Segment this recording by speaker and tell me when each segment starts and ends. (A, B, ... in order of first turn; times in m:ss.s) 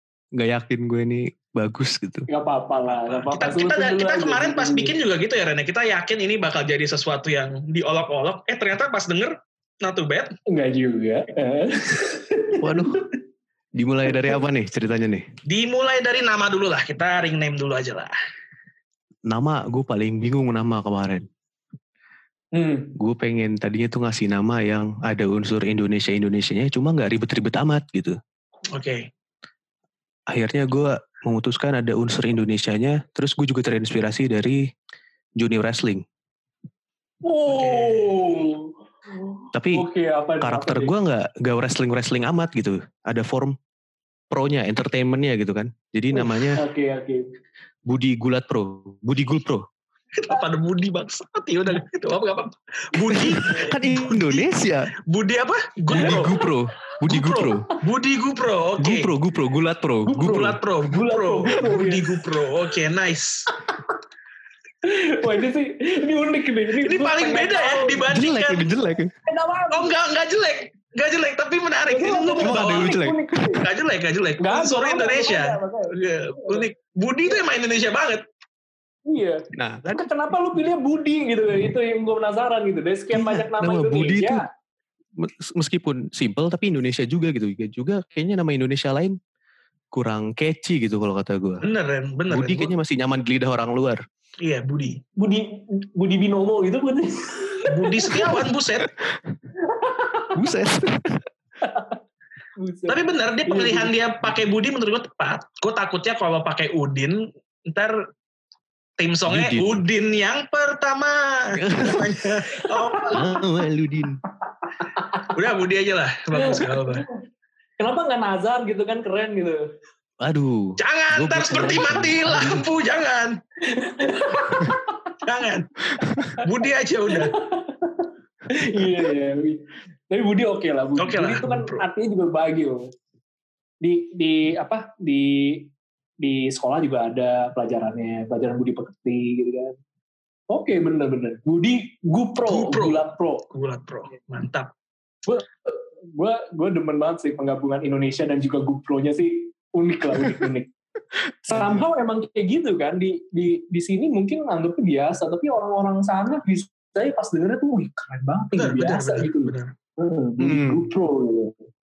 0:00.4-0:02.3 A
0:02.3-0:04.9 B
0:02.9-0:10.3 C
0:10.5-0:13.1 B
0:12.6-0:13.0 A
0:13.8-0:15.3 A
0:15.5-0:18.1 C
0:19.3-0:21.3 A
0:22.5-0:22.9 B
0:23.0-0:28.2 A
0:28.7-0:29.1 C
0:30.3-0:34.7 A
0:35.4-0:36.0 A
0:37.2-0:40.9 B
0:37.5-0:38.2 C
0:39.5-0:39.8 A
0:40.4-0:43.6 A
0:44.3-0:46.6 A
0:46.1-0:47.2 B
0:47.9-0:49.6 A
0:50.1-0:54.5 C
0:53.0-0:54.9 A
0:55.1-0:56.4 C
0:55.9-0:57.7 A
0:57.0-0:59.1 C
0:58.8-1:00.6 A
1:00.1-1:02.3 B
1:00.2-1:03.5 C
1:03.6-1:03.9 B
1:04.8-1:08.1 B
1:06.8-1:08.8 C
1:08.1-1:09.1 A
1:09.3-1:09.9 B
1:09.7-1:13.0 C
1:11.9-1:13.6 B
1:12.4-1:13.6 A
1:13.6-1:18.2 C
1:14.4-1:16.7 B
1:19.1-1:24.5 B
1:19.5-1:20.1 A
1:23.1-1:24.4 A
1:25.2-1:29.2 A
1:29.9-1:31.6 A
1:31.6-1:32.7 C
1:32.3-1:34.0 A
1:34.4-1:35.0 C
1:35.2-1:38.4 B
1:37.7-1:38.9 C
1:39.6-1:40.4 B
1:40.3-1:41.2 A
1:41.6-1:42.0 B
1:42.6-1:43.9 B
1:42.9-1:48.0 C
1:49.0-1:53.2 C
1:49.3-1:49.8 A
1:51.6-1:52.2 A
1:52.6-1:53.2 B
1:53.1-1:54.2 A
1:54.8-1:55.3 B
1:55.3-1:57.0 C
1:56.3-1:57.2 B
1:57.8-1:59.6 B
2:00.2-2:02.7 A
2:00.8-2:03.4 C
2:03.6-2:05.2 B
2:05.2-2:05.7 C
2:06.4-2:07.4 C
2:07.1-2:12.9 B
2:11.0-2:11.8 C
2:13.8-2:19.8 B
2:20.5-2:23.4 B
2:22.5-2:24.7 C
2:25.3-2:30.7 B
2:31.4-2:41.6 B
2:31.5-2:31.8 A
2:38.5-2:39.7 C
2:40.4-2:40.8 A